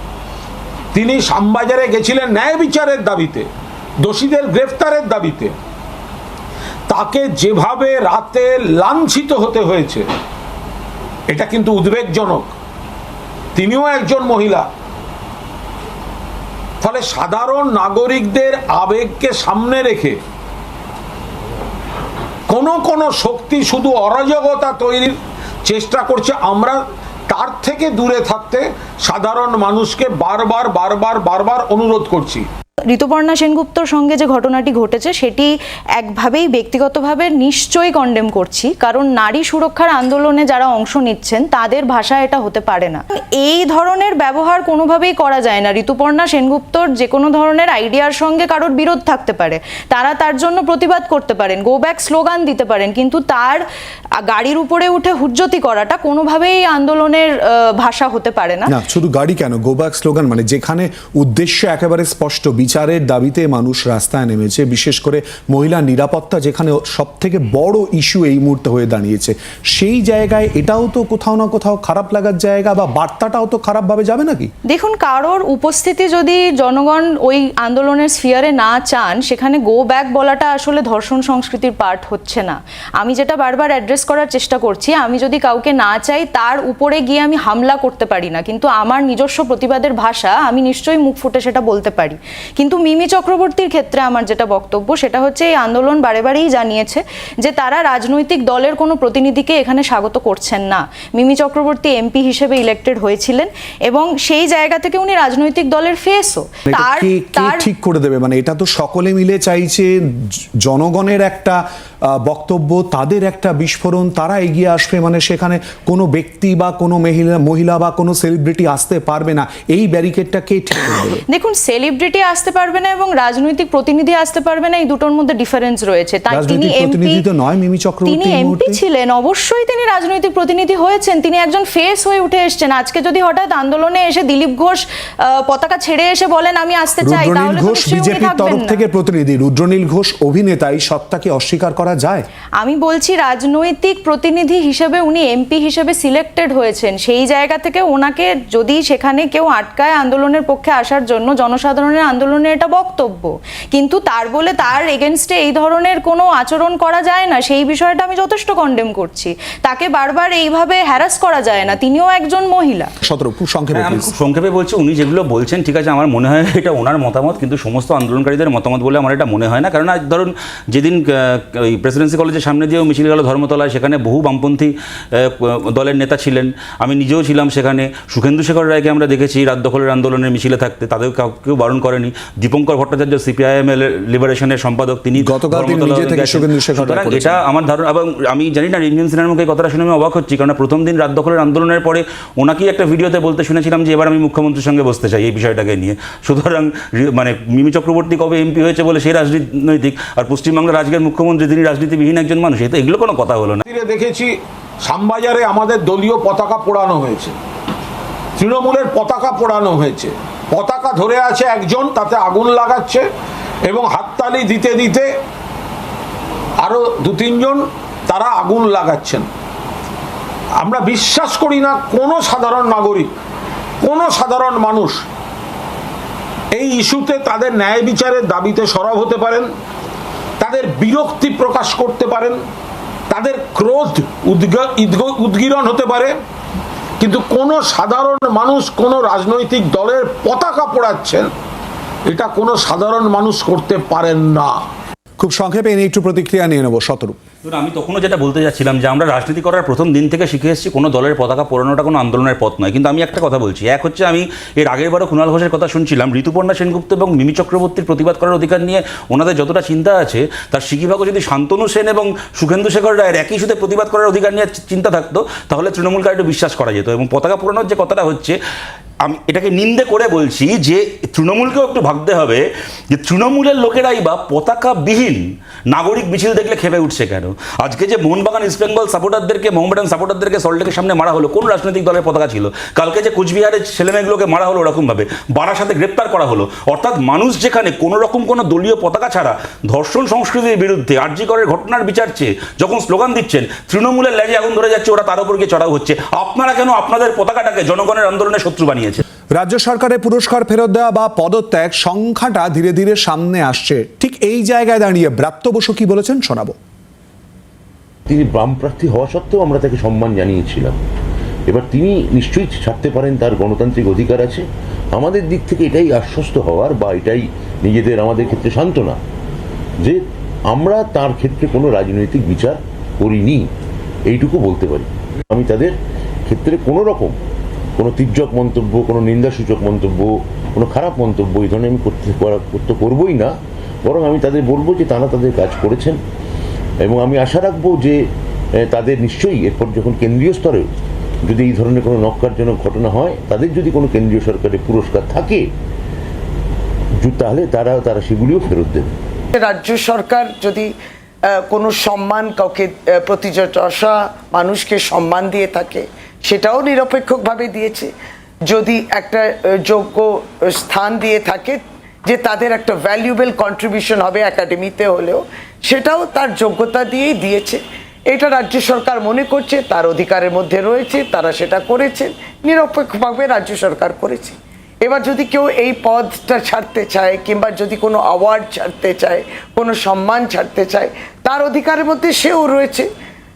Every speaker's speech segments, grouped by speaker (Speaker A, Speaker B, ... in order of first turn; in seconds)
Speaker A: 0.9-3.5, 4.0-5.5, 6.9-10.1, 11.3-12.5, 13.6-14.7, 16.8-20.2, 22.5-32.5, 203.7-204.3, 204.8-207.3, 208.4-213.1, 213.7-215.1, 216.6-219.3, 220.6-223.1, 223.8-225.1, 226.5-229.5, 230.4-232.4, 233.1-236.2, 237.0-241.3, 242.1-244.6
Speaker B: 32.9-53.6, 54.2-58.7, 74.7-107.7, 121.3-127.2, 128.1-138.8, 142.6-162.9
Speaker C: 58.7-74.5, 106.7-109.9, 110.7-111.6, 112.2-121.2, 126.3-128.8, 137.0-142.3, 163.0-164.1, 185.2-187.4, 245.2-247.2, 299.4-306.6
Speaker D: 163.7-203.6, 247.4-268.4, 269.1-299.0
Speaker E: 308.1-310.8, 311.5-319.0, 319.8-323.5, 324.1-325.8, 326.3-327.2, 327.8-336.0, 336.8-338.0, 338.6-340.7, 341.2-345.5, 347.0-348.9
Speaker F: 349.3-350.7, 351.3-357.9, 358.4-382.9